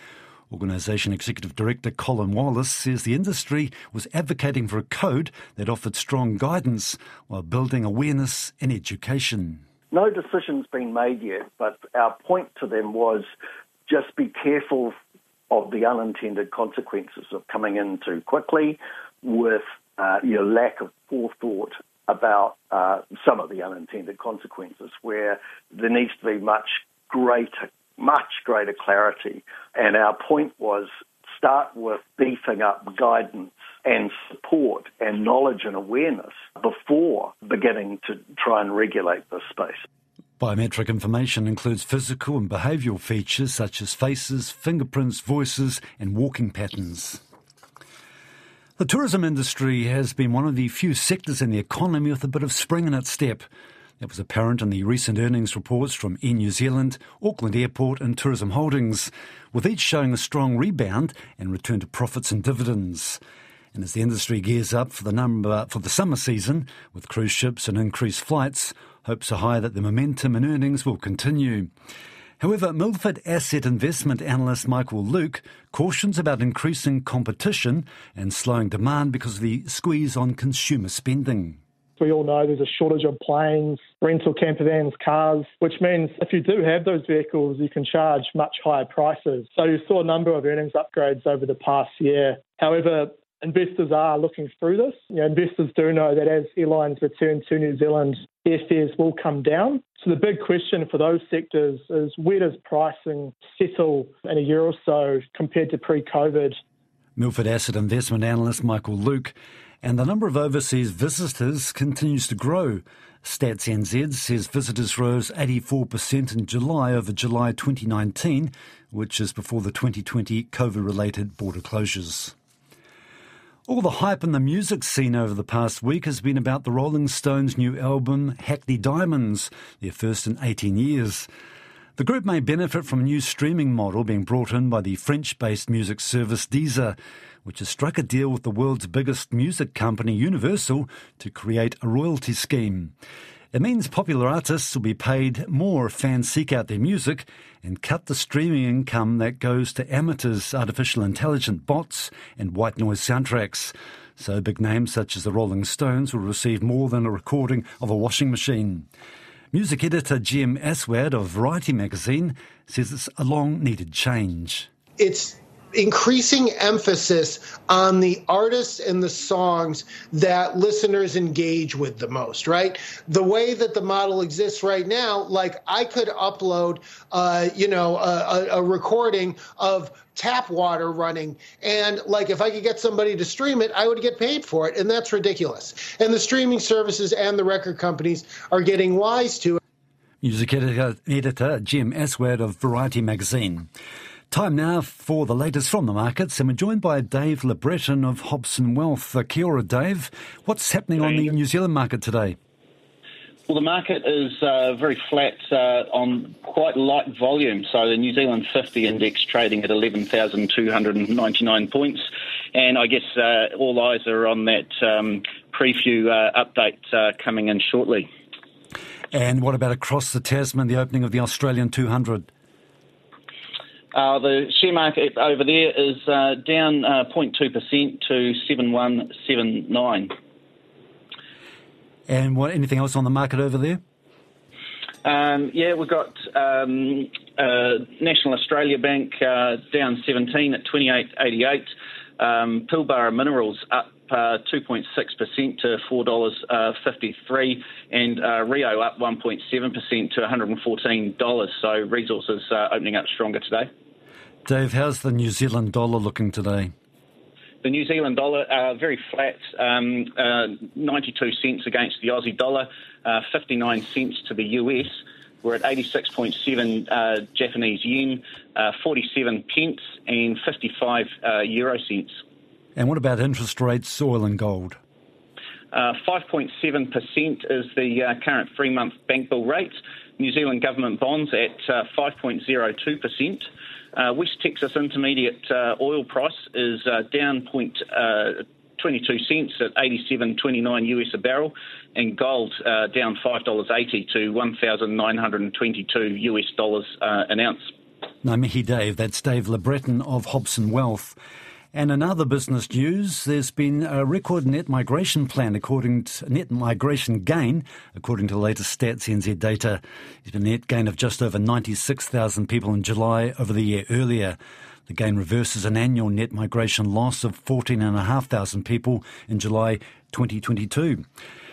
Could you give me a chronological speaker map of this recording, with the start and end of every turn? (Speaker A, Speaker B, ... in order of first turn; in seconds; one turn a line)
Speaker A: 0.5-9.6
Speaker B: 9.9-13.3
Speaker B: 13.9-15.0
Speaker B: 15.5-39.8
Speaker A: 40.4-47.2
Speaker A: 48.8-53.5
Speaker A: 54.0-63.2
Speaker A: 63.7-71.7
Speaker A: 72.4-81.6
Speaker C: 82.0-106.6
Speaker A: 107.2-122.3
Speaker A: 123.7-131.3
Speaker A: 132.0-142.9
Speaker A: 143.5-158.9
Speaker A: 159.5-164.7
Speaker D: 165.0-189.6
Speaker A: 190.2-193.7
Speaker A: 194.3-202.4
Speaker E: 203.5-212.0
Speaker E: 212.5-218.1
Speaker A: 219.1-222.3
Speaker E: 223.9-230.1
Speaker A: 232.1-233.8
Speaker E: 235.0-241.7
Speaker E: 242.2-253.7
Speaker A: 254.4-256.7
Speaker E: 257.6-272.1
Speaker A: 272.8-274.8
Speaker E: 275.7-297.7
Speaker A: 298.2-301.2
Speaker A: 301.7-321.1